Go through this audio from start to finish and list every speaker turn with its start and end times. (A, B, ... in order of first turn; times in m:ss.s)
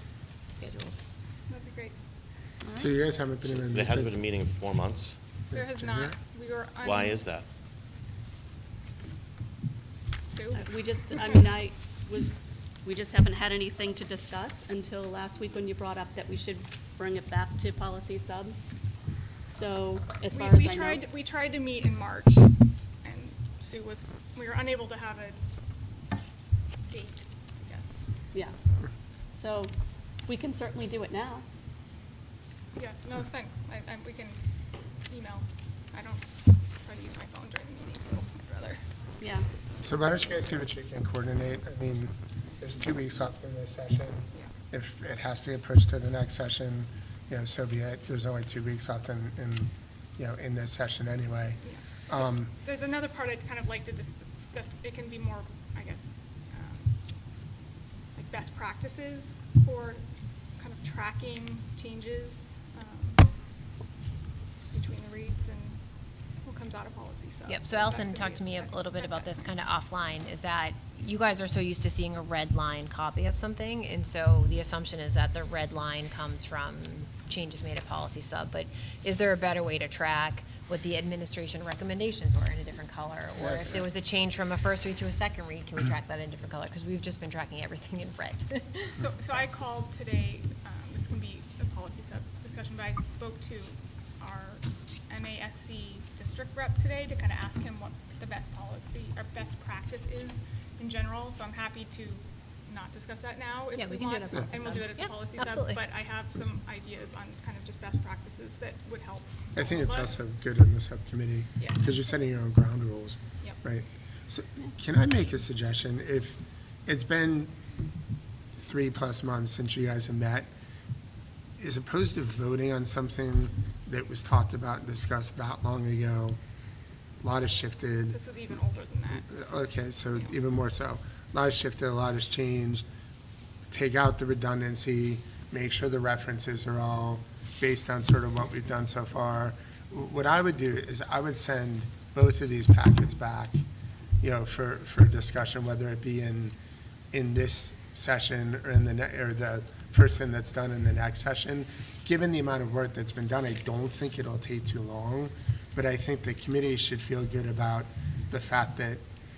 0:00.5-0:00.9 A
0:01.5-0:01.9 B
0:02.6-0:02.9 C
0:02.7-0:04.2 D
0:03.4-0:05.2 E
0:05.5-0:07.3 B
0:05.5-0:06.1 D
0:06.8-0:07.4 E
0:10.3-0:11.4 B
0:10.5-0:18.6 C
0:19.5-0:21.0 C
0:20.3-0:25.4 B
0:26.9-0:28.0 B
0:29.3-0:29.7 C
0:30.2-0:31.4 C
0:32.7-0:34.4 B
0:35.1-0:36.3 B
0:36.8-0:38.8 B
0:39.2-0:39.4 C
0:39.8-0:52.5 D
0:52.5-0:56.9 B
0:58.1-1:00.0 B
1:00.6-1:03.2 B
1:04.7-1:05.8 B
1:06.4-1:09.2 B
1:07.5-1:29.4 A
1:23.4-1:23.8 D
1:29.0-1:50.2 B
1:43.7-1:45.8 A
1:49.5-1:57.5 D
1:58.6-2:00.5 D
2:01.6-2:06.4 D
2:07.2-2:08.2 D
2:08.1-2:09.4 B
2:09.3-2:12.8 D
2:13.7-2:23.6 D
2:24.2-2:26.5 D
2:27.1-2:39.0 D